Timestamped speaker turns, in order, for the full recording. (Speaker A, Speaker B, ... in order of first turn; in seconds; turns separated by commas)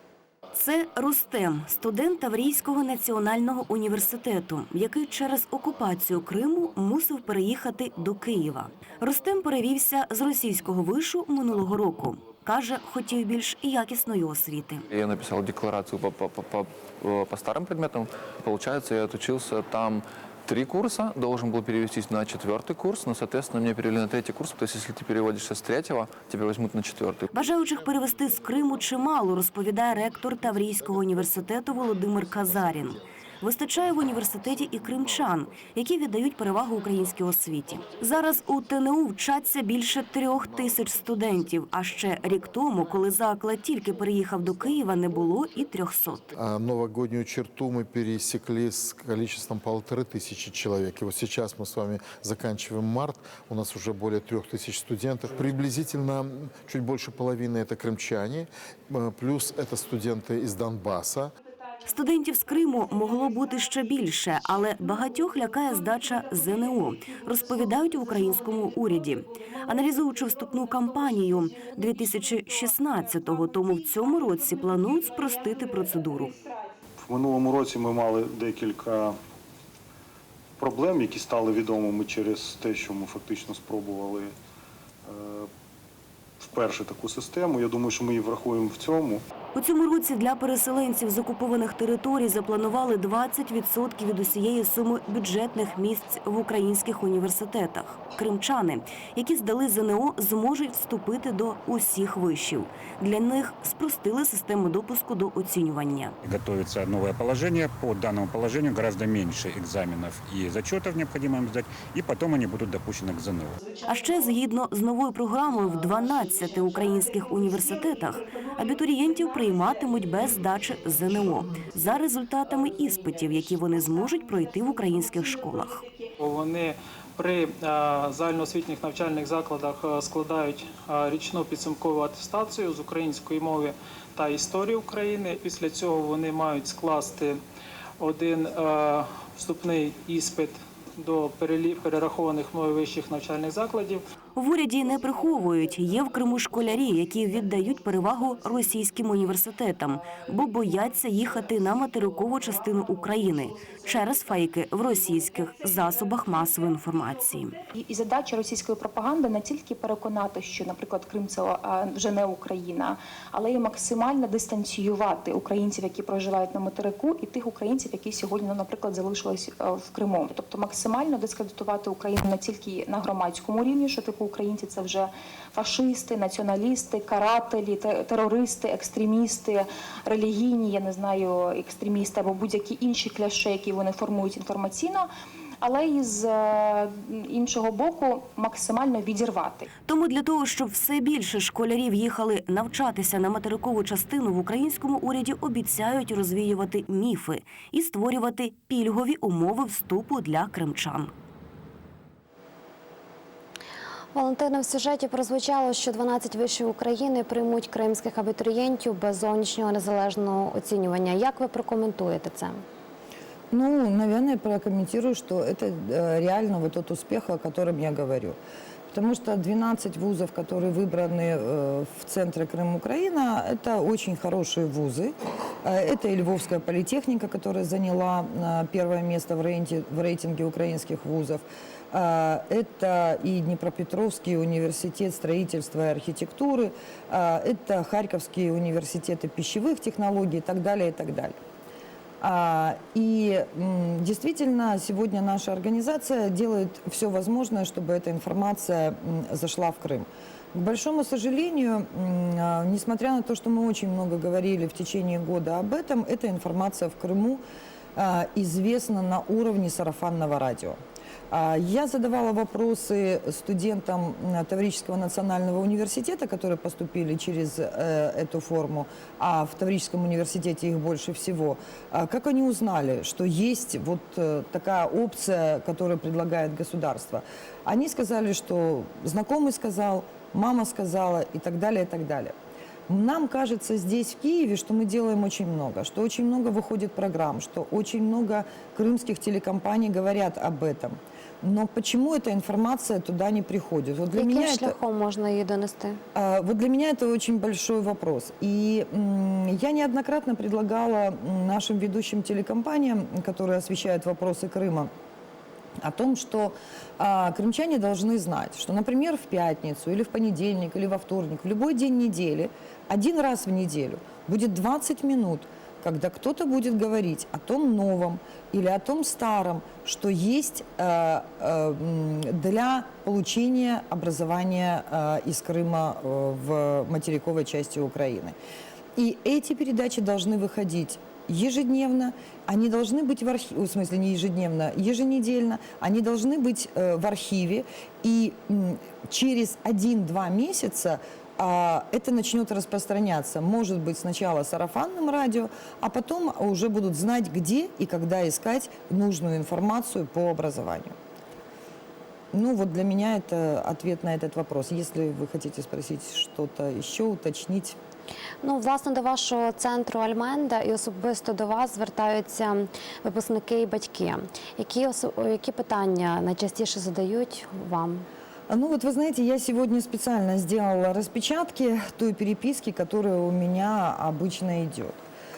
Speaker A: 0.6-14.9, Speaker B: 14.9-27.3, Speaker A: 27.3-46.3, Speaker C: 46.4-61.3, Speaker A: 61.9-76.3, Speaker D: 77.0-79.2, Speaker D: 80.6-84.3, Speaker D: 85.0-85.5, Speaker D: 86.4-89.2, Speaker A: 89.5-106.2, Speaker E: 106.2-113.6, Speaker A: 113.9-125.8, Speaker F: 126.2-137.4, Speaker F: 138.0-144.0, Speaker A: 144.4-157.6, Speaker G: 157.8-185.1, Speaker G: 185.6-189.7, Speaker A: 189.9-201.1, Speaker H: 204.1-212.6, Speaker I: 213.5-218.4, Speaker I: 218.9-241.4, Speaker I: 242.2-257.4, Speaker I: 257.9-282.3, Speaker I: 282.9-294.8, Speaker H: 294.2-296.0, Speaker I: 296.1-304.9, Speaker I: 305.8-328.4, Speaker I: 329.0-351.0, Speaker I: 352.3-357.8, Speaker H: 358.4-368.1, Speaker I: 368.5-375.0